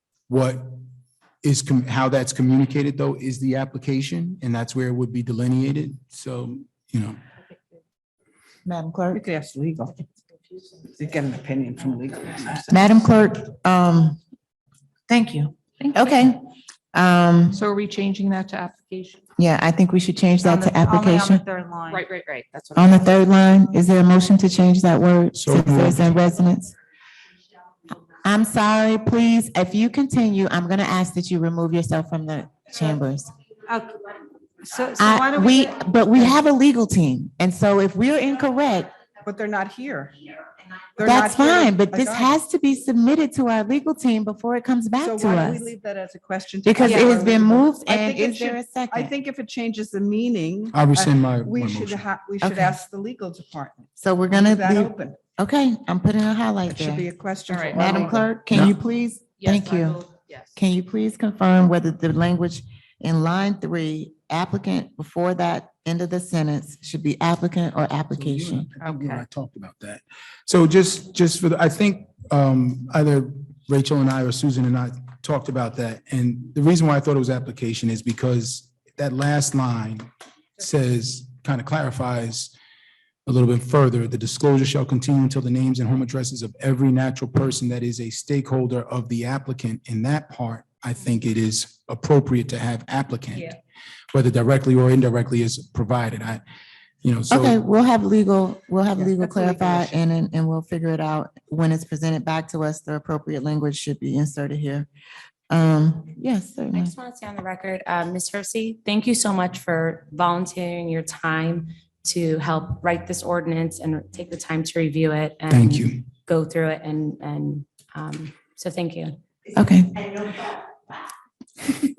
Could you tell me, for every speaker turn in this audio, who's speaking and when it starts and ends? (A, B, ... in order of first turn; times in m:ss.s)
0:00.3-0:00.8 A
0:01.4-0:07.2 A
0:08.6-0:09.2 B
0:09.1-0:10.0 C
0:10.9-0:12.8 C
0:12.7-0:14.2 B
0:15.1-0:16.4 B
0:15.8-0:16.2 D
0:16.9-0:17.6 B
0:17.5-0:19.2 D
0:19.4-0:21.4 B
0:20.4-0:22.1 E
0:21.9-0:23.1 D
0:22.7-0:26.7 B
0:25.4-0:26.0 A
0:28.2-0:33.3 B
0:33.7-0:34.0 E
0:34.6-0:36.4 E
0:35.0-0:38.9 B
0:39.2-0:40.2 C
0:41.0-0:42.3 C
0:41.0-0:45.7 B
0:45.0-0:55.2 C
0:46.6-0:49.1 B
0:46.8-0:47.2 E
0:50.7-0:52.7 A
0:54.0-1:08.7 B
0:56.6-0:58.3 C
0:57.5-0:57.9 D
0:58.5-0:58.8 A
0:59.4-1:00.5 D
1:08.1-1:22.5 A
1:08.8-1:09.2 D
1:23.2-1:33.6 A
1:34.1-1:36.4 A
1:37.0-1:37.6 A
1:37.3-1:44.9 B
1:39.0-1:40.0 C
1:45.5-1:46.9 B
1:46.8-1:59.2 F
1:55.5-1:56.1 A
1:59.5-2:00.3 B